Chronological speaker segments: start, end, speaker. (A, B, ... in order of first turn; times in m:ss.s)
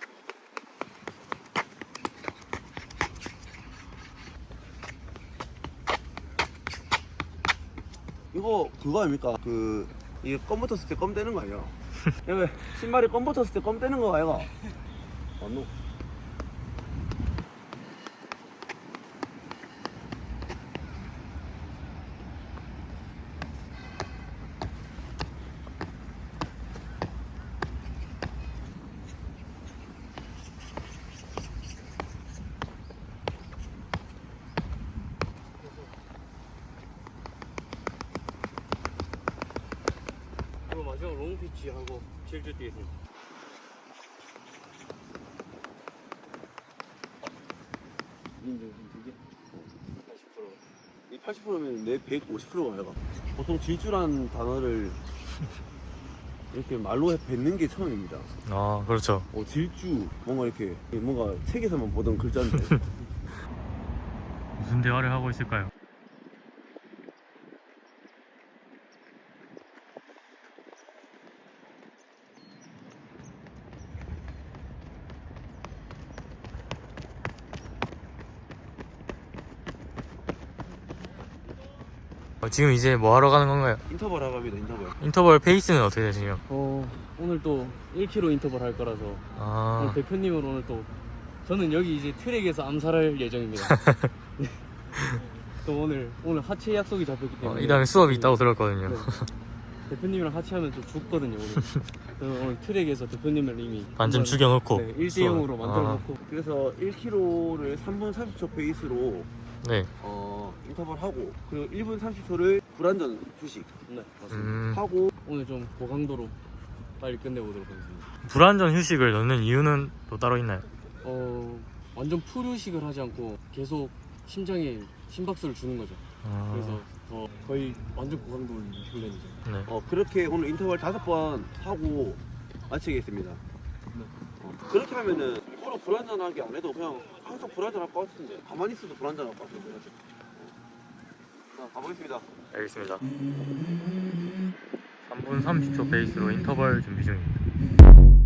0:08.3-0:14.5 A
0:15.4-0:15.7 A
0:40.6-0:42.9 B
0:48.4-0:49.2 B
0:50.0-0:50.6 B
0:51.1-0:55.0 A
0:56.5-0:58.3 A
0:58.4-0:59.3 C
0:59.3-1:02.8 A
1:04.6-1:05.7 C
1:22.4-1:23.8 C
1:23.9-1:25.0 A
1:25.0-1:26.4 C
1:26.5-1:29.2 B
1:29.4-1:30.0 C
1:29.8-1:30.9 B
1:31.4-1:33.8 B
1:35.6-1:39.1 B
1:37.4-1:39.3 C
1:39.9-1:46.2 B
1:44.0-1:46.0 C
1:46.2-1:49.3 A
1:49.6-1:49.9 C
1:50.0-1:53.7 A
1:53.9-1:54.5 B
1:54.3-1:54.8 C
1:54.3-1:55.1 A
1:55.2-1:56.4 B
1:57.0-1:58.1 B
1:58.2-2:00.7 C
2:01.0-2:09.4 B
2:06.2-2:06.8 C
2:09.6-2:13.4 A
2:14.4-2:20.5 A
2:21.5-2:22.3 A
2:22.5-2:23.0 C
2:25.0-2:27.4 C